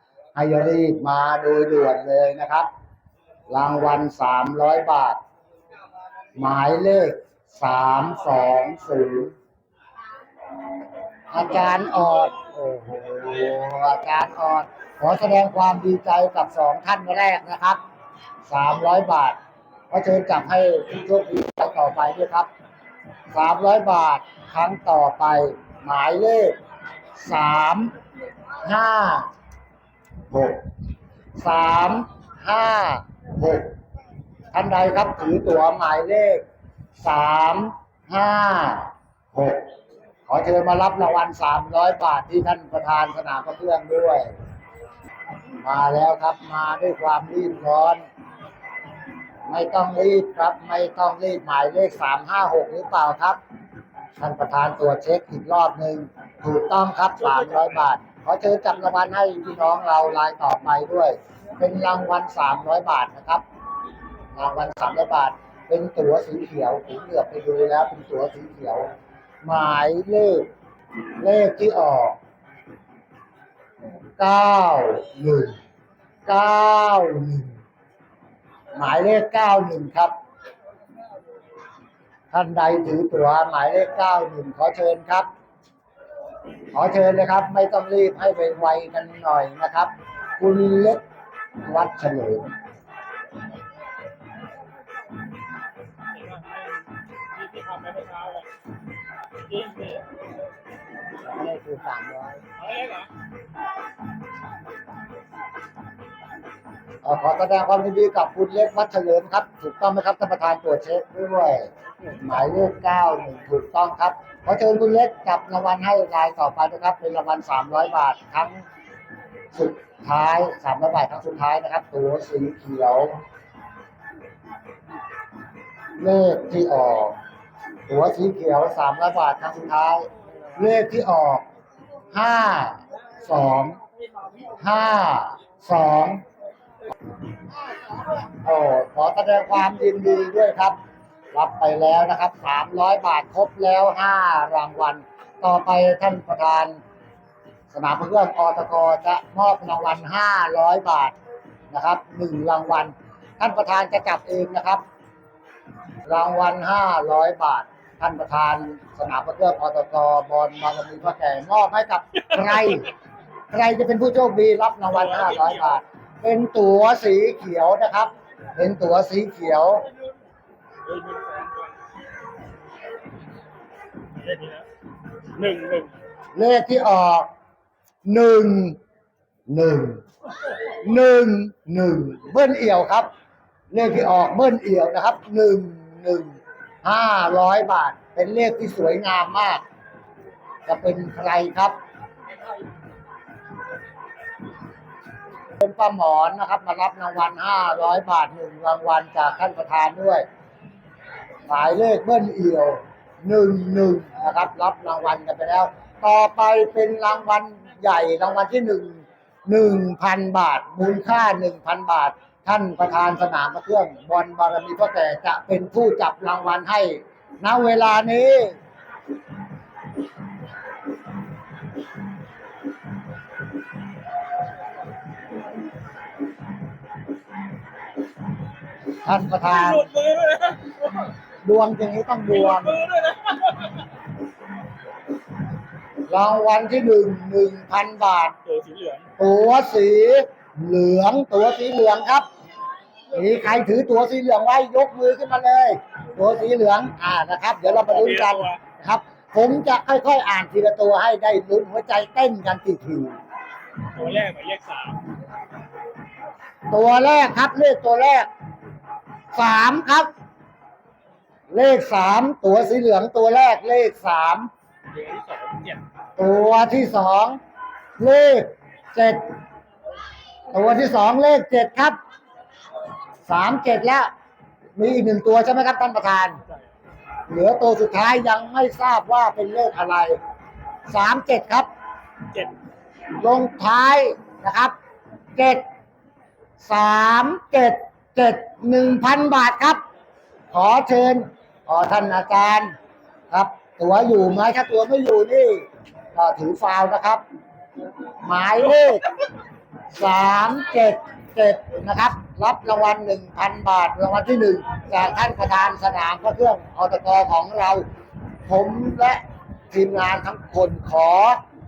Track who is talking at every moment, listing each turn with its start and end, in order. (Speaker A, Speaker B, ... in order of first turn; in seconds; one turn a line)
Speaker A: 0.3-2.7
Speaker A: 3.5-5.2
Speaker A: 6.4-9.3
Speaker A: 11.3-17.8
Speaker A: 18.5-19.4
Speaker A: 19.9-22.5
Speaker A: 23.3-26.6
Speaker A: 27.2-27.9
Speaker A: 28.6-29.3
Speaker A: 30.3-30.6
Speaker A: 31.4-33.7
Speaker A: 34.5-36.5
Speaker A: 37.0-39.7
Speaker A: 40.3-44.3
Speaker A: 45.6-48.1
Speaker A: 49.5-53.4
Speaker A: 54.2-63.4
Speaker B: 57.2-57.8
Speaker A: 64.3-68.9
Speaker A: 69.4-70.5
Speaker A: 71.2-72.2
Speaker A: 74.2-75.6
Speaker A: 76.3-77.6
Speaker A: 78.8-80.2
Speaker A: 82.3-85.3
Speaker A: 86.7-91.0
Speaker A: 91.6-92.5
Speaker B: 96.1-98.5
Speaker B: 99.5-100.1
Speaker A: 101.3-102.4
Speaker B: 102.6-103.1
Speaker A: 107.0-118.6
Speaker A: 119.5-123.2
Speaker A: 126.0-127.2
Speaker A: 127.9-131.5
Speaker A: 132.1-133.8
Speaker A: 134.6-136.2
Speaker A: 138.4-140.8
Speaker A: 141.3-146.8
Speaker A: 147.7-151.2
Speaker A: 151.7-154.8
Speaker A: 156.1-162.9
Speaker A: 163.5-169.9
Speaker B: 164.9-165.8
Speaker B: 170.8-171.8
Speaker B: 174.2-174.7
Speaker B: 175.4-175.9
Speaker A: 176.3-177.3
Speaker A: 178.1-178.8
Speaker A: 179.5-180.0
Speaker A: 180.8-183.1
Speaker A: 183.7-189.6
Speaker A: 190.7-191.8
Speaker A: 195.6-200.3
Speaker A: 201.5-218.6
Speaker A: 229.1-229.8
Speaker B: 229.5-231.0
Speaker A: 231.4-232.8
Speaker B: 232.3-233.8
Speaker A: 236.1-238.3
Speaker B: 238.4-239.1
Speaker A: 239.2-242.3
Speaker A: 243.1-253.2
Speaker B: 247.8-248.6
Speaker B: 253.9-255.0
Speaker A: 256.7-258.3
Speaker A: 259.3-260.1
Speaker A: 261.5-264.5
Speaker B: 264.9-265.8
Speaker A: 266.2-267.4
Speaker A: 268.0-269.3
Speaker A: 270.5-272.0
Speaker A: 273.3-274.1
Speaker A: 274.8-276.4
Speaker A: 277.3-280.2
Speaker A: 280.9-281.7
Speaker A: 283.2-284.8
Speaker A: 285.4-285.6
Speaker A: 286.6-289.8
Speaker A: 290.5-292.7
Speaker A: 293.3-297.2
Speaker A: 298.2-299.1
Speaker A: 299.9-307.9
Speaker A: 308.5-311.4